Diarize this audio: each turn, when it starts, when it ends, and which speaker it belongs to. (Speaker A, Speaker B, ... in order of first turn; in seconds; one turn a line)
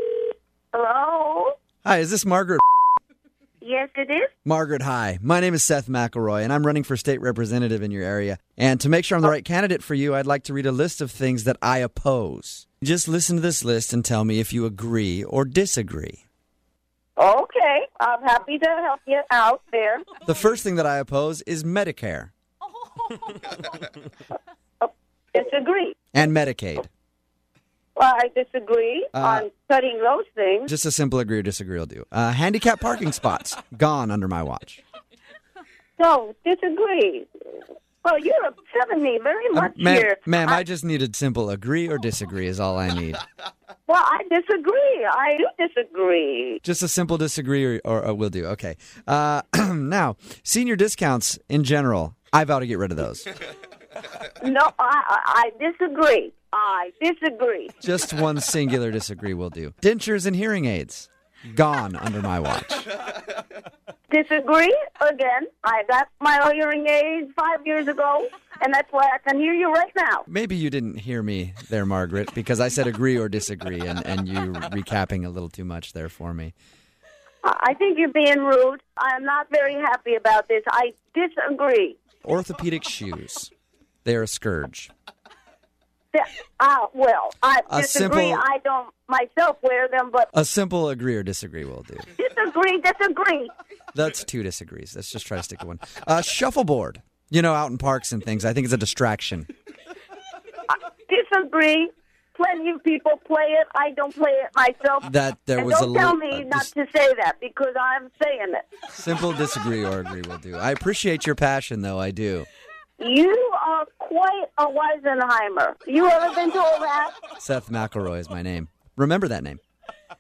Speaker A: 0.7-1.5
Speaker B: 1.8-2.6
Speaker A: 3.6-4.3
Speaker B: 4.5-16.2
Speaker A: 17.2-20.1
Speaker B: 20.2-22.3
Speaker A: 24.8-26.0
Speaker B: 26.1-26.9
Speaker A: 27.9-30.7
Speaker B: 29.1-29.5
Speaker B: 30.7-34.8
Speaker A: 36.0-37.3
Speaker A: 38.0-40.6
Speaker B: 39.5-43.2
Speaker A: 43.9-46.6
Speaker B: 46.6-53.3
Speaker A: 54.4-57.7
Speaker B: 57.8-62.9
Speaker A: 64.1-70.2
Speaker B: 70.3-76.5
Speaker A: 77.4-82.0
Speaker B: 82.2-83.5
Speaker B: 84.0-84.9
Speaker A: 86.1-90.3
Speaker B: 87.7-88.4
Speaker B: 90.3-92.1
Speaker A: 92.2-93.5
Speaker B: 93.9-99.5
Speaker A: 100.7-108.7
Speaker B: 105.0-106.7
Speaker B: 108.9-112.5
Speaker A: 113.0-117.2
Speaker B: 117.4-119.6